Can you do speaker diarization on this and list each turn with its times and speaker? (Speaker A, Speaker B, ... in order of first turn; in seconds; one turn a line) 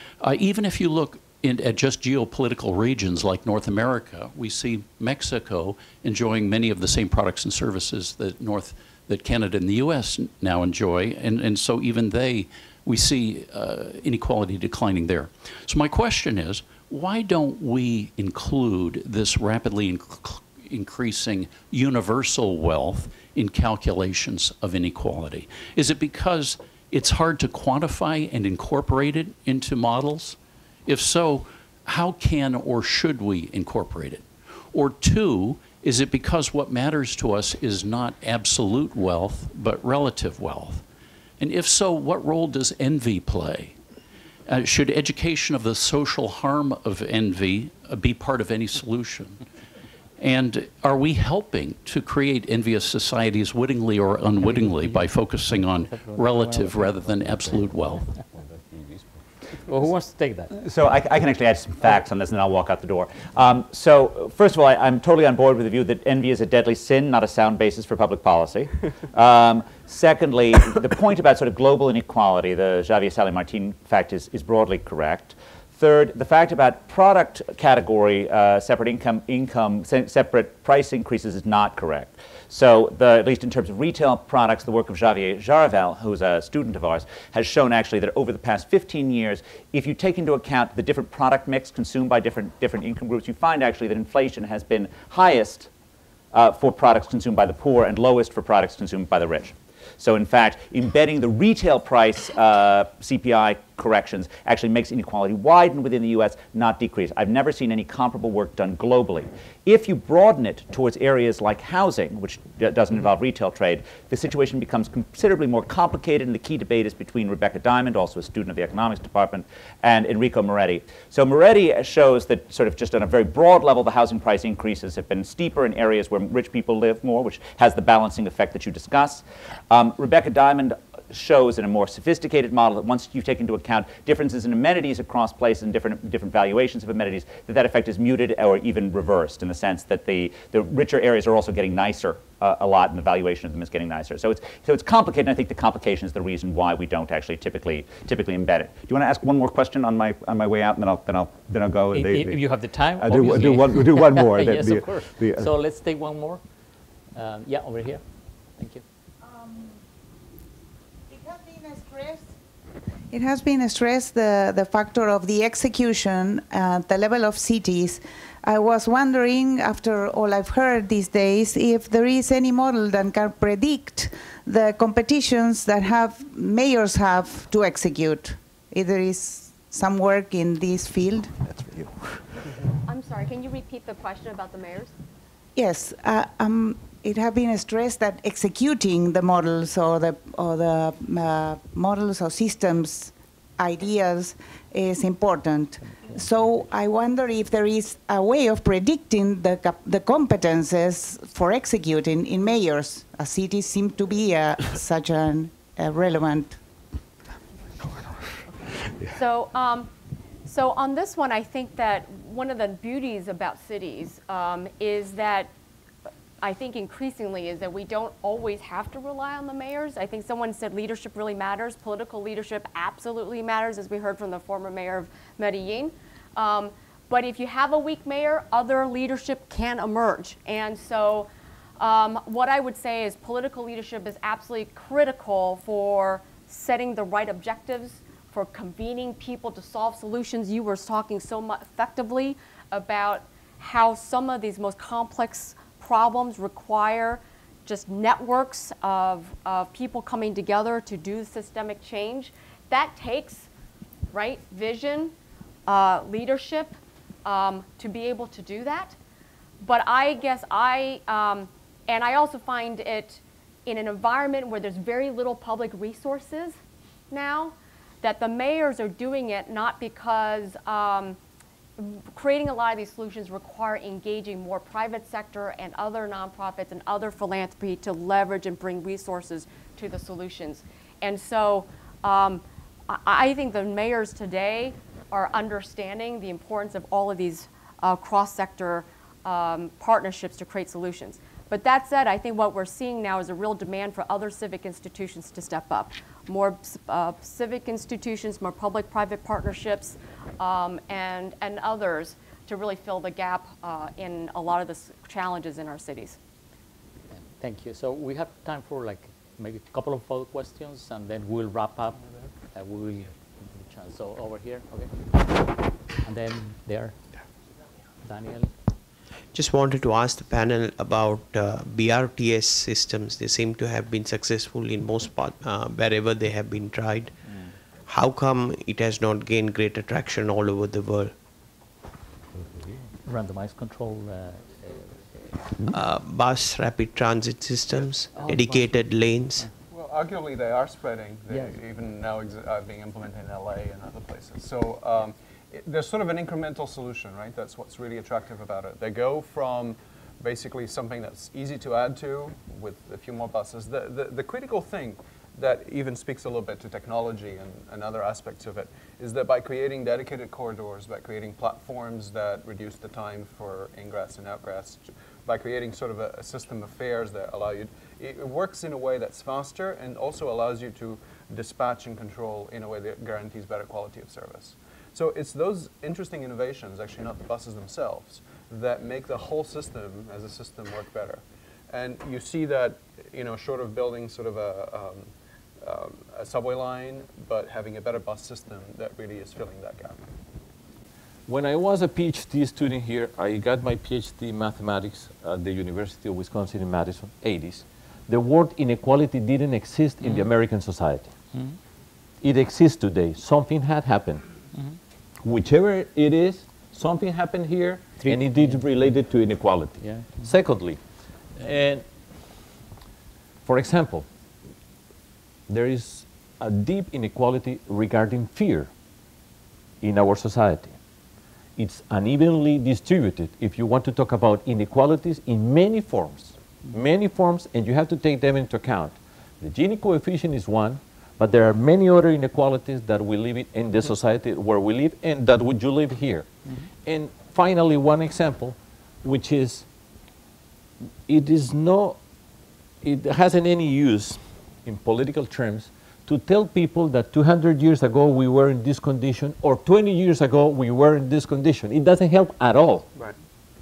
Speaker A: 0.2-40.8
Speaker A: 41.4-43.7
Speaker A: 44.5-49.4
Speaker A: 50.2-58.1
Speaker B: 54.5-55.1
Speaker B: 55.8-57.3
Speaker B: 59.5-60.5
Speaker C: 60.5-95.7
Speaker C: 96.3-155.5
Speaker B: 151.9-156.4
Speaker B: 157.1-158.0
Speaker B: 158.6-158.8
Speaker D: 159.3-159.7
Speaker D: 161.1-162.3
Speaker D: 163.1-181.8
Speaker E: 182.8-184.9
Speaker D: 185.6-206.6
Speaker E: 209.1-209.9
Speaker E: 210.4-215.5
Speaker E: 216.4-231.3
Speaker E: 231.8-253.5
Speaker E: 254.1-255.1
Speaker E: 255.7-256.7
Speaker E: 257.2-258.9
Speaker E: 259.6-266.6
Speaker E: 267.1-271.2
Speaker E: 271.8-306.2
Speaker B: 307.1-315.5
Speaker B: 316.0-317.2
Speaker B: 318.0-318.5
Speaker F: 319.3-327.1
Speaker F: 327.9-331.1
Speaker B: 332.7-335.3
Speaker F: 335.7-339.4
Speaker B: 338.1-338.8
Speaker G: 339.7-390.0
Speaker B: 341.3-341.6
Speaker H: 391.3-401.1
Speaker B: 400.0-400.3
Speaker B: 401.3-401.6
Speaker H: 402.2-404.3
Speaker H: 405.2-410.8
Speaker B: 408.0-408.8
Speaker B: 409.8-410.4
Speaker H: 411.4-411.8
Speaker H: 413.4-414.1
Speaker H: 415.5-418.7
Speaker H: 419.8-420.8
Speaker H: 421.6-436.3
Speaker H: 436.8-439.6
Speaker H: 441.1-442.0
Speaker H: 442.8-452.9